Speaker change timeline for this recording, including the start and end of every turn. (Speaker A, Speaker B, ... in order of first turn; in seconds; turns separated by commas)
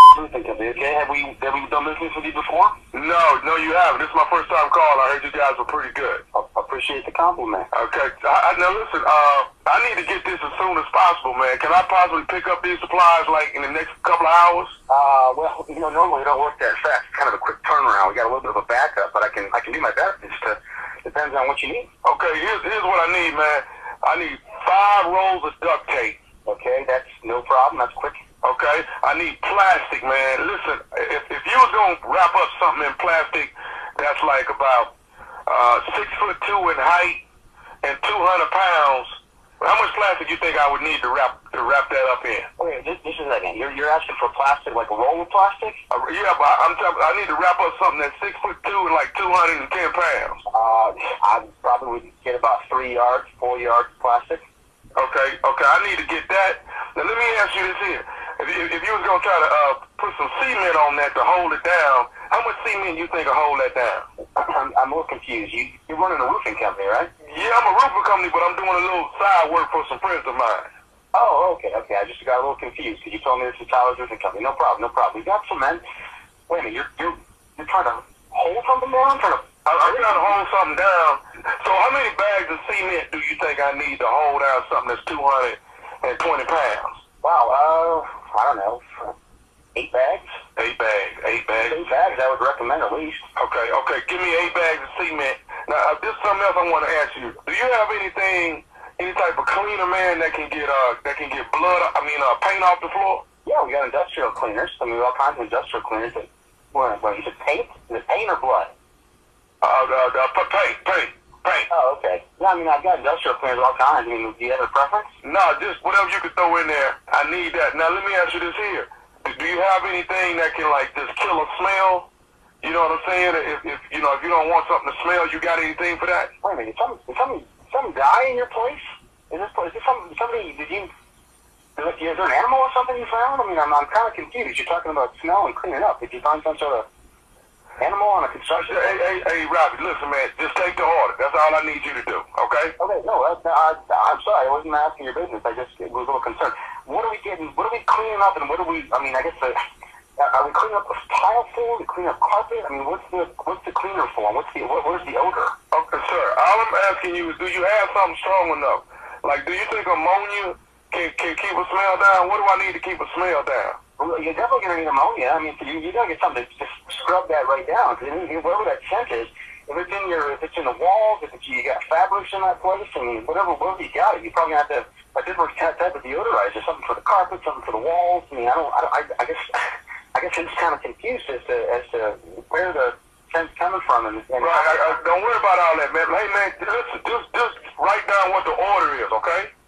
Speaker A: 0.1-2.8, Speaker B: 2.9-6.2, Speaker A: 6.3-7.7, Speaker B: 7.7-14.8, Speaker A: 14.9-21.9, Speaker B: 22.0-26.2, Speaker A: 26.4-28.2, Speaker B: 28.4-34.9, Speaker B: 35.5-37.2, Speaker B: 37.8-42.5, Speaker A: 42.6-45.8, Speaker B: 45.9-50.4, Speaker A: 50.5-54.4, Speaker B: 55.0-64.0, Speaker A: 64.3-67.1, Speaker B: 67.2-70.7, Speaker A: 71.1-75.8, Speaker A: 76.5-80.3, Speaker B: 79.6-87.0, Speaker A: 87.2-89.1, Speaker A: 89.7-90.3, Speaker B: 90.5-92.0, Speaker A: 91.6-93.2, Speaker B: 93.3-103.2, Speaker A: 103.4-108.7, Speaker B: 109.6-111.7, Speaker A: 111.7-115.1, Speaker B: 115.2-122.1, Speaker B: 122.6-126.3, Speaker A: 126.4-130.9, Speaker A: 131.8-136.8, Speaker A: 137.8-139.0, Speaker B: 138.5-142.7, Speaker A: 142.8-149.6, Speaker A: 150.2-155.5, Speaker B: 155.7-163.8, Speaker A: 164.0-184.9, Speaker B: 184.4-189.5